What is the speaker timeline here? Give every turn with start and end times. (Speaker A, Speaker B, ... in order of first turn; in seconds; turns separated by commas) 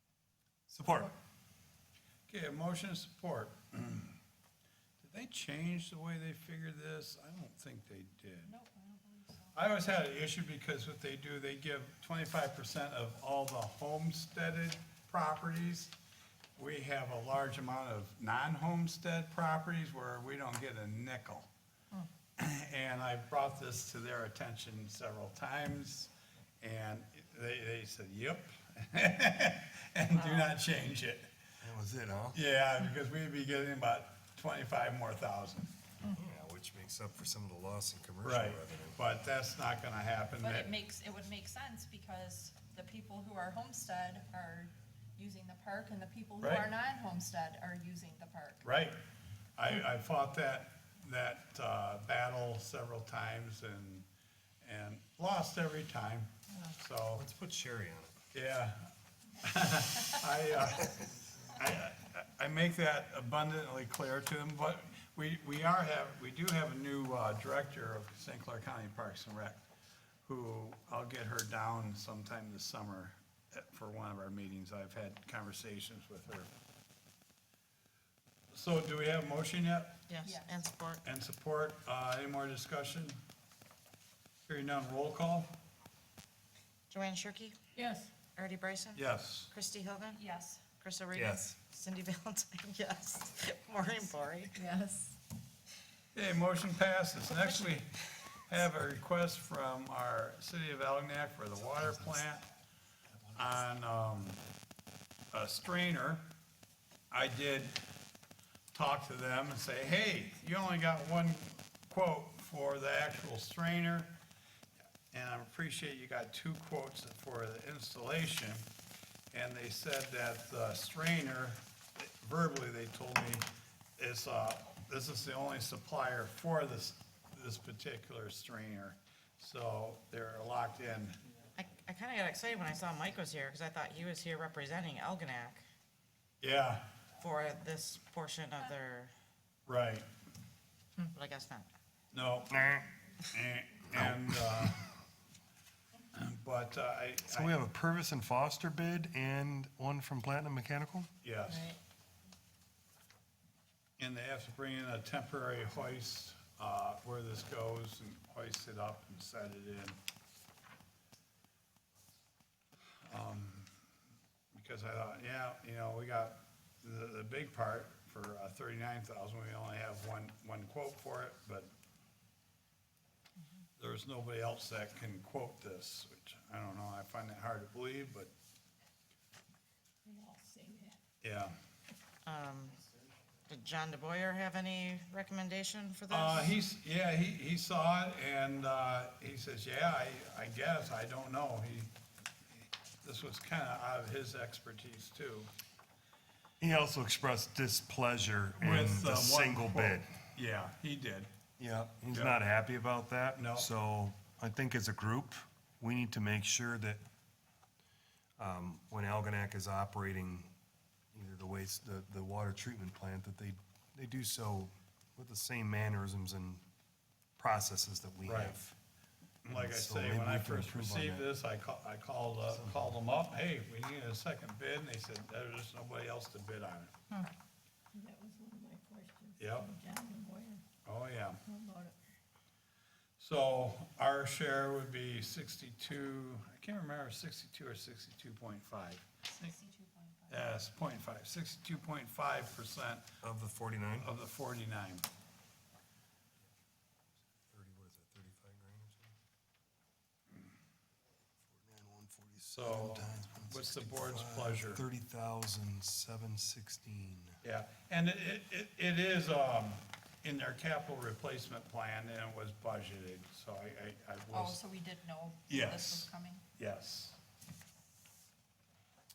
Speaker A: 0.7-1.1, Speaker B: 0.8-1.1, Speaker C: 2.3-4.2, Speaker C: 5.0-8.5, Speaker B: 8.4-9.6, Speaker C: 9.6-15.9, Speaker C: 16.6-21.5, Speaker C: 22.4-31.3, Speaker D: 30.1-30.6, Speaker A: 31.6-32.4, Speaker C: 32.3-35.7, Speaker A: 36.1-39.0, Speaker C: 38.2-40.7, Speaker B: 40.4-48.7, Speaker C: 46.4-46.7, Speaker C: 48.6-49.0, Speaker C: 49.6-54.1, Speaker C: 54.6-57.2, Speaker A: 56.5-58.2, Speaker C: 58.3-69.6, Speaker C: 70.3-76.5, Speaker C: 78.5-80.0, Speaker D: 80.1-81.0, Speaker B: 80.2-80.7, Speaker C: 81.0-83.2, Speaker C: 84.5-85.5, Speaker D: 86.9-87.6, Speaker E: 87.8-88.1, Speaker D: 88.4-90.2, Speaker C: 89.0-89.5, Speaker B: 90.1-90.6, Speaker D: 90.8-94.5, Speaker A: 91.1-91.5, Speaker B: 94.5-95.2, Speaker C: 96.1-97.9, Speaker D: 97.3-97.7, Speaker C: 98.5-102.5, Speaker C: 103.3-104.4, Speaker C: 105.3-106.2, Speaker C: 107.1-107.8, Speaker C: 108.7-114.2, Speaker C: 115.1-118.7, Speaker C: 119.3-131.2, Speaker D: 131.6-135.6, Speaker C: 136.4-136.9, Speaker D: 137.2-139.1, Speaker C: 139.7-140.1, Speaker D: 141.0-141.7, Speaker C: 142.1-142.5, Speaker A: 142.5-142.9, Speaker C: 143.3-144.8, Speaker A: 143.9-144.7, Speaker C: 146.1-147.5, Speaker A: 147.3-151.1, Speaker C: 151.2-151.8, Speaker C: 154.0-160.0, Speaker C: 163.0-163.7, Speaker C: 164.5-171.7, Speaker C: 173.8-178.3, Speaker E: 180.1-181.0, Speaker C: 181.2-181.5, Speaker D: 182.2-182.8, Speaker D: 183.5-186.6, Speaker C: 186.1-191.9, Speaker C: 193.0-195.5, Speaker A: 196.6-200.1, Speaker C: 198.6-201.3, Speaker A: 201.6-207.0, Speaker C: 202.1-202.4, Speaker C: 203.4-203.7, Speaker A: 208.4-210.5, Speaker A: 211.1-216.6, Speaker A: 217.4-218.8, Speaker C: 218.3-218.6, Speaker C: 219.4-226.9, Speaker A: 219.5-221.3, Speaker A: 222.5-222.9, Speaker E: 227.9-230.6, Speaker C: 229.4-229.7, Speaker C: 230.8-231.4, Speaker E: 231.5-232.0, Speaker C: 233.2-239.6, Speaker B: 239.4-240.6, Speaker C: 240.3-243.1, Speaker A: 243.2-244.1, Speaker C: 244.0-245.1, Speaker A: 247.5-249.2, Speaker A: 251.4-257.4, Speaker C: 252.5-254.8, Speaker C: 257.4-264.6, Speaker B: 264.3-266.4, Speaker C: 265.5-267.2